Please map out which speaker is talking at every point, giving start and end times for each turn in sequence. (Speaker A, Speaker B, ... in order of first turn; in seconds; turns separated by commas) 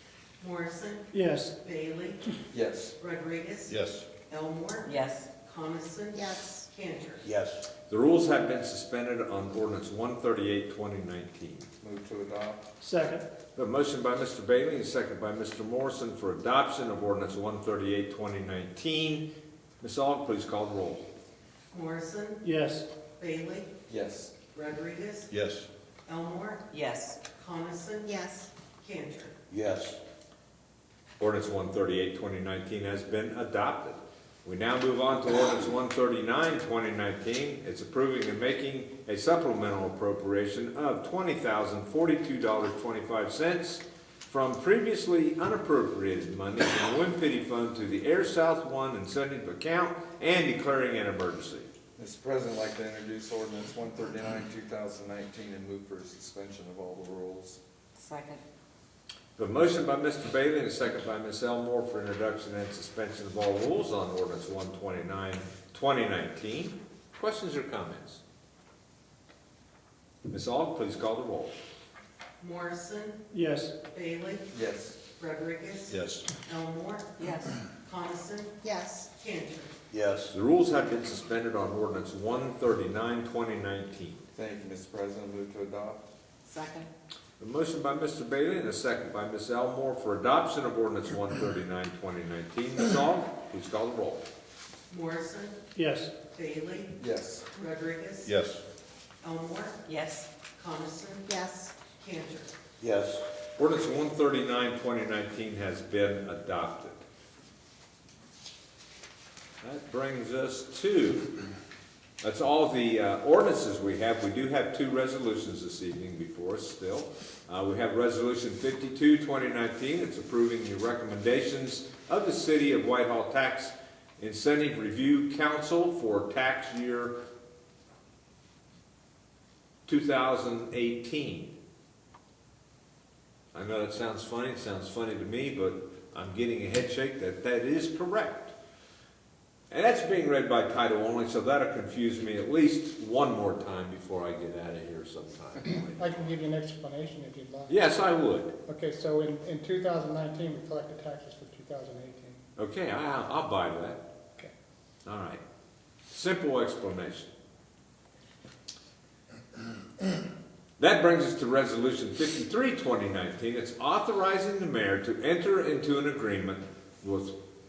Speaker A: 0.4-2.2, Speaker B: 1.1-1.5, Speaker C: 2.5-2.9, Speaker A: 3.0-3.8, Speaker D: 3.7-4.0, Speaker A: 4.3-7.2, Speaker E: 4.8-5.3, Speaker F: 6.1-6.6, Speaker D: 7.2-7.7, Speaker G: 7.9-11.7, Speaker C: 11.8-12.6, Speaker B: 12.8-13.2, Speaker G: 13.5-19.3, Speaker G: 19.8-21.1, Speaker A: 21.7-22.4, Speaker B: 22.4-22.9, Speaker A: 23.2-23.7, Speaker C: 23.9-24.3, Speaker A: 24.5-25.3, Speaker D: 25.3-25.7, Speaker A: 26.1-26.6, Speaker E: 26.7-27.2, Speaker A: 27.3-28.2, Speaker F: 28.1-28.5, Speaker A: 28.8-29.3, Speaker D: 29.5-30.0, Speaker G: 31.2-51.7, Speaker C: 52.0-57.6, Speaker E: 58.0-58.4, Speaker G: 59.4-68.2, Speaker G: 70.3-71.5, Speaker A: 72.4-73.2, Speaker B: 73.3-73.7, Speaker A: 73.8-74.5, Speaker C: 74.5-75.0, Speaker A: 75.2-78.6, Speaker D: 75.9-76.2, Speaker E: 77.2-77.5, Speaker F: 78.6-79.1, Speaker A: 79.1-79.7, Speaker D: 79.9-80.3, Speaker G: 80.3-84.2, Speaker C: 84.3-86.0, Speaker E: 86.5-86.9, Speaker G: 87.4-94.2, Speaker A: 94.9-95.6, Speaker B: 95.7-96.1, Speaker A: 96.3-97.0, Speaker C: 97.0-97.5, Speaker A: 97.5-98.3, Speaker D: 98.2-98.6, Speaker A: 99.2-99.8, Speaker E: 99.8-100.3, Speaker A: 100.5-101.3, Speaker F: 101.2-101.7, Speaker A: 101.9-102.5, Speaker D: 102.8-103.2, Speaker G: 103.5-107.0, Speaker G: 109.6-111.4, Speaker G: 112.2-127.1, Speaker G: 129.9-131.5, Speaker G: 133.5-138.5, Speaker G: 139.7-146.4, Speaker H: 145.8-147.8, Speaker G: 147.7-148.5, Speaker H: 148.7-152.4, Speaker G: 152.6-154.0, Speaker G: 155.0-155.4, Speaker G: 156.1-157.3, Speaker G: 160.8-167.3